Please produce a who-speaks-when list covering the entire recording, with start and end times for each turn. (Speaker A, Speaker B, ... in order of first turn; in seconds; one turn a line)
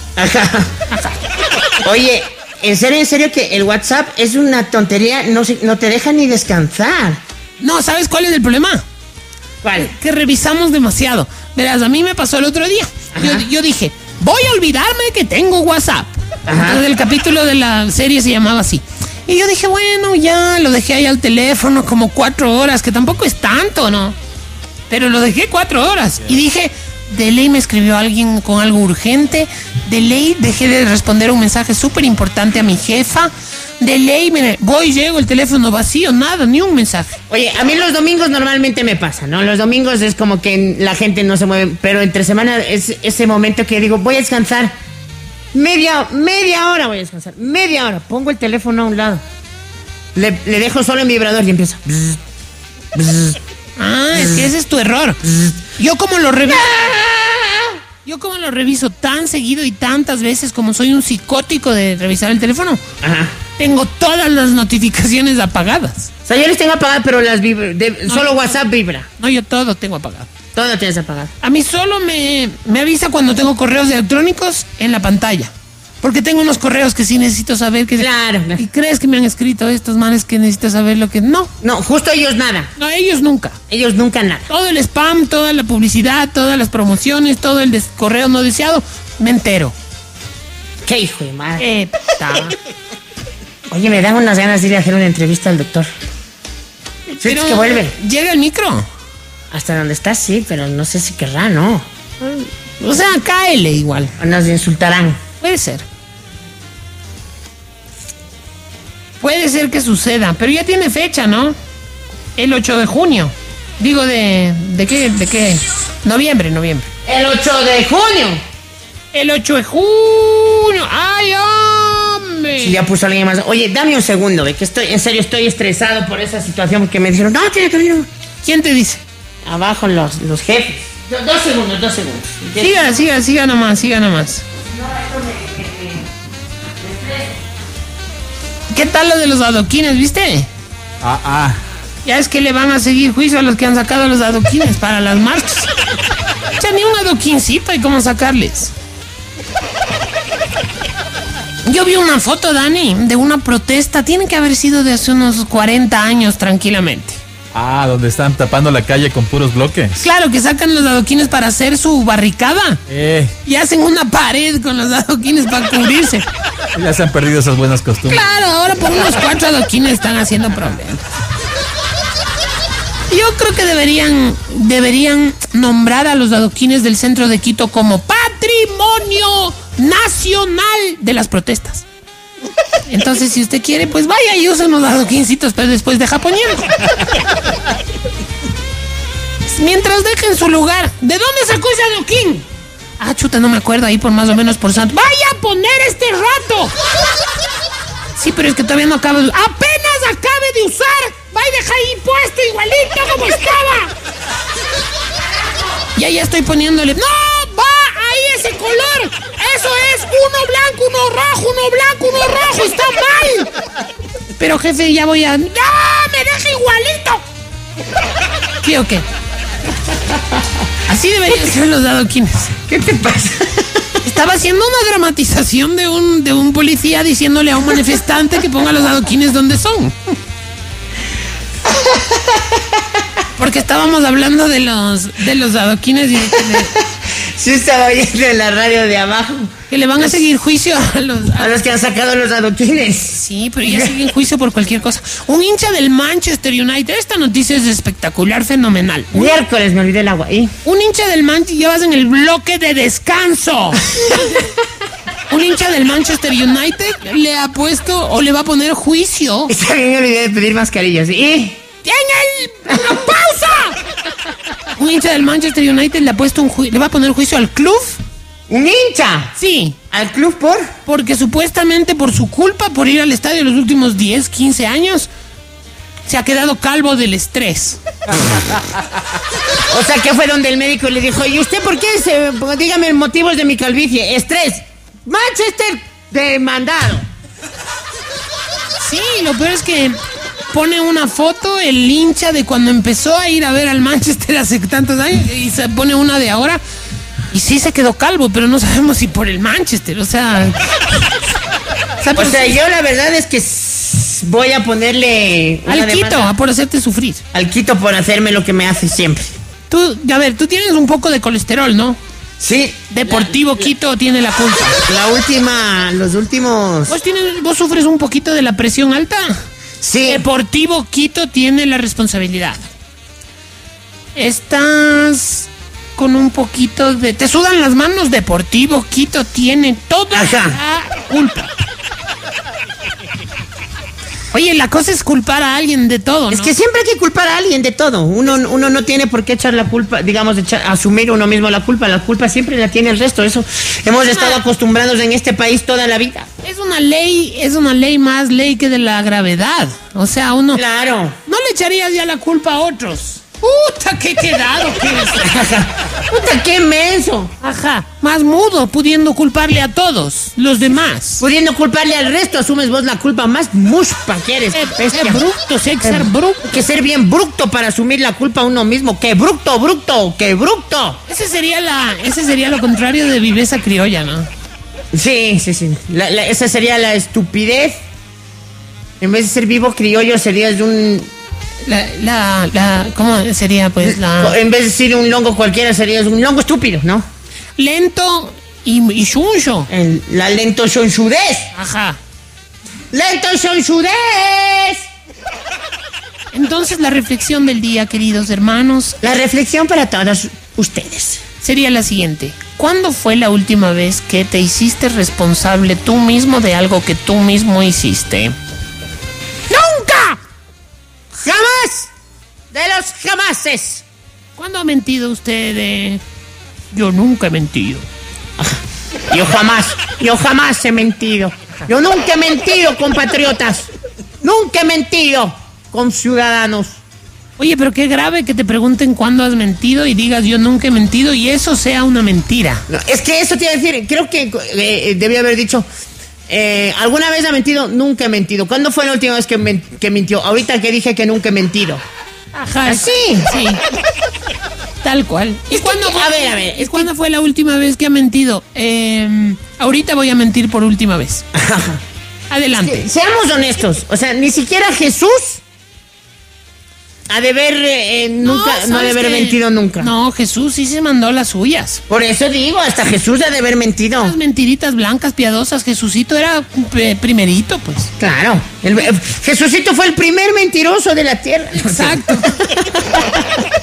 Speaker A: 0.1-0.7
Speaker B: 0.9-1.2
Speaker A: 1.8-7.2
Speaker B: 7.6-8.8
Speaker A: 9.6-9.9
Speaker B: 9.7-24.2
Speaker A: 13.1-13.4
Speaker A: 16.5-16.8
Speaker B: 24.9-37.2
Speaker A: 37.3-44.7
Speaker A: 45.5-49.2
Speaker A: 50.1-52.2
Speaker A: 52.9-53.4
Speaker B: 53.8-55.2
Speaker B: 55.7-57.0
Speaker A: 56.5-57.7
Speaker B: 58.0-62.8
Speaker A: 63.0-63.3
Speaker B: 63.6-66.1
Speaker A: 66.2-69.1
Speaker B: 68.1-68.5
Speaker B: 69.2-70.3
Speaker A: 70.5-71.3
Speaker B: 71.4-81.5
Speaker A: 78.0-78.6
Speaker A: 81.6-82.7
Speaker B: 82.8-83.6
Speaker A: 83.7-84.5
Speaker B: 84.5-89.7
Speaker A: 90.8-91.6
Speaker B: 91.6-92.6
Speaker A: 93.7-95.9
Speaker B: 97.1-98.8
Speaker A: 97.2-97.9
Speaker A: 99.5-101.8
Speaker B: 102.2-104.1
Speaker A: 104.2-105.2
Speaker B: 105.4-105.8
Speaker B: 109.2-111.5
Speaker B: 112.3-116.9
Speaker A: 117.0-118.4
Speaker B: 119.1-122.8
Speaker A: 122.6-128.1
Speaker B: 128.4-129.0
Speaker A: 129.4-132.8
Speaker B: 132.6-134.4
Speaker A: 134.7-136.1
Speaker A: 136.8-137.3
Speaker B: 138.7-140.5
Speaker C: 141.0-141.6
Speaker B: 142.0-145.7
Speaker B: 146.6-148.7
Speaker B: 151.6-157.2
Speaker C: 157.5-160.0
Speaker B: 159.9-162.8
Speaker C: 162.9-163.3
Speaker B: 163.4-166.3
Speaker C: 166.7-168.2
Speaker B: 168.1-171.0
Speaker B: 173.1-181.8
Speaker B: 182.9-186.8
Speaker B: 189.5-192.4
Speaker B: 193.0-196.7
Speaker B: 198.2-203.9
Speaker B: 205.9-213.5
Speaker B: 214.4-217.2
Speaker B: 218.6-219.1
Speaker B: 220.8-222.6
Speaker A: 222.7-223.9
Speaker B: 224.0-230.2
Speaker A: 231.7-232.8
Speaker B: 233.4-236.8
Speaker A: 236.4-239.5
Speaker B: 239.7-241.5
Speaker A: 241.4-243.9
Speaker B: 243.1-249.4
Speaker A: 249.1-250.5
Speaker B: 250.6-253.9
Speaker B: 255.3-259.5
Speaker A: 259.5-261.6
Speaker B: 261.8-263.8
Speaker B: 264.7-268.0
Speaker A: 268.5-269.3
Speaker B: 269.4-269.8
Speaker A: 269.9-270.7
Speaker B: 270.9-275.1
Speaker B: 276.1-277.8
Speaker A: 279.7-287.1
Speaker B: 288.8-290.0
Speaker B: 290.5-296.6
Speaker B: 297.3-300.8
Speaker B: 302.0-302.6
Speaker A: 302.1-306.3
Speaker B: 305.6-307.2
Speaker A: 307.3-309.3
Speaker B: 309.7-312.0
Speaker A: 312.4-313.4
Speaker B: 312.9-314.8
Speaker A: 314.9-316.9
Speaker B: 316.9-319.4
Speaker A: 319.8-320.2
Speaker B: 320.0-322.7
Speaker B: 324.1-331.5
Speaker A: 330.1-330.6
Speaker B: 334.3-336.5
Speaker A: 336.3-346.3
Speaker B: 344.1-344.4
Speaker B: 346.4-350.6
Speaker A: 350.5-351.2
Speaker B: 351.3-355.3
Speaker A: 355.2-357.3
Speaker B: 357.4-361.2
Speaker A: 361.2-365.2
Speaker B: 364.5-366.5
Speaker A: 365.8-371.0
Speaker B: 371.1-374.3
Speaker A: 374.9-377.8
Speaker A: 379.0-381.1
Speaker B: 381.6-384.4
Speaker A: 383.8-387.1
Speaker B: 387.6-389.7
Speaker A: 389.7-391.5
Speaker B: 391.5-392.0
Speaker A: 392.9-394.9
Speaker B: 396.3-399.0
Speaker A: 399.0-401.2
Speaker B: 401.4-408.3
Speaker B: 409.5-410.2
Speaker A: 411.2-411.9
Speaker A: 412.5-413.8
Speaker B: 414.4-416.0
Speaker B: 416.7-417.9
Speaker A: 418.4-423.7
Speaker A: 424.2-426.8
Speaker B: 427.4-432.6
Speaker A: 432.7-435.6
Speaker A: 436.3-441.8
Speaker B: 442.3-443.6
Speaker A: 442.6-443.3
Speaker B: 444.8-451.2
Speaker A: 445.5-446.9
Speaker A: 451.3-451.8
Speaker B: 452.3-452.9
Speaker A: 452.6-455.4
Speaker A: 457.1-459.9
Speaker B: 458.2-461.8
Speaker A: 461.9-464.2
Speaker B: 464.0-467.9
Speaker A: 468.0-473.4
Speaker B: 471.5-472.3